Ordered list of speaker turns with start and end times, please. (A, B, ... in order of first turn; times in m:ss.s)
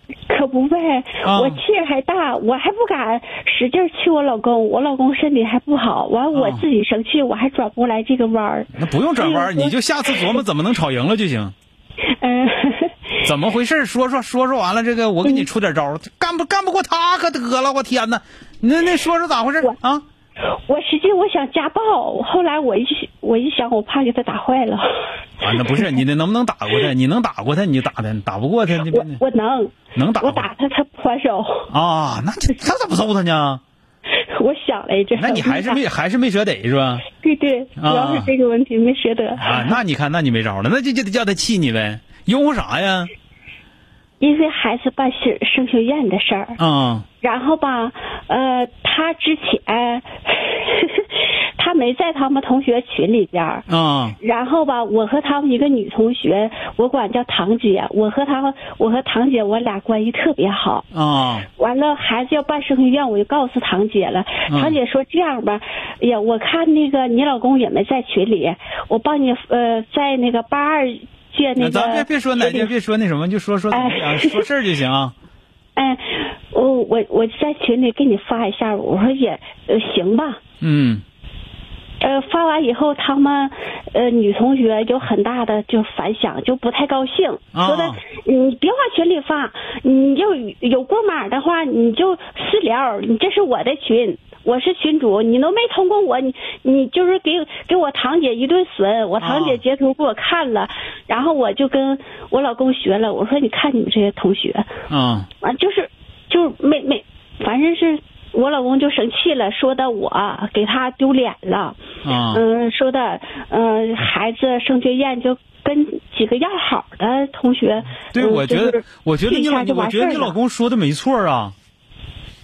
0:00.3-0:09.8 A
0:01.2-0:01.6 B
0:06.3-0:06.6 B
0:08.8-0:11.5 B
0:12.2-0:13.0 A
0:13.2-0:20.0 B
0:20.5-0:24.9 A
0:25.4-0:29.2 B
0:28.9-0:31.7 A
0:29.9-0:30.5 B
0:31.7-0:33.6 B
0:34.1-0:35.8 A
0:35.2-0:37.0 B
0:37.1-0:39.8 A
0:37.8-0:38.3 B
0:39.4-0:43.1 B
0:44.2-0:46.6 A
0:46.6-0:47.1 B
0:47.2-0:53.7 A
0:53.7-0:54.2 B
0:54.2-1:00.9 A
1:00.9-1:01.5 B
1:01.6-1:12.7 A
1:04.5-1:04.8 B
1:11.6-1:15.1 B
1:13.7-1:14.4 A
1:15.8-1:20.4 A
1:20.6-1:21.0 B
1:22.0-1:44.7 A
1:27.5-1:28.0 B
1:39.2-1:39.6 B
1:44.9-1:45.3 B
1:45.4-1:51.8 A
1:52.0-1:52.4 B
1:52.3-2:00.4 A
1:58.1-2:01.6 B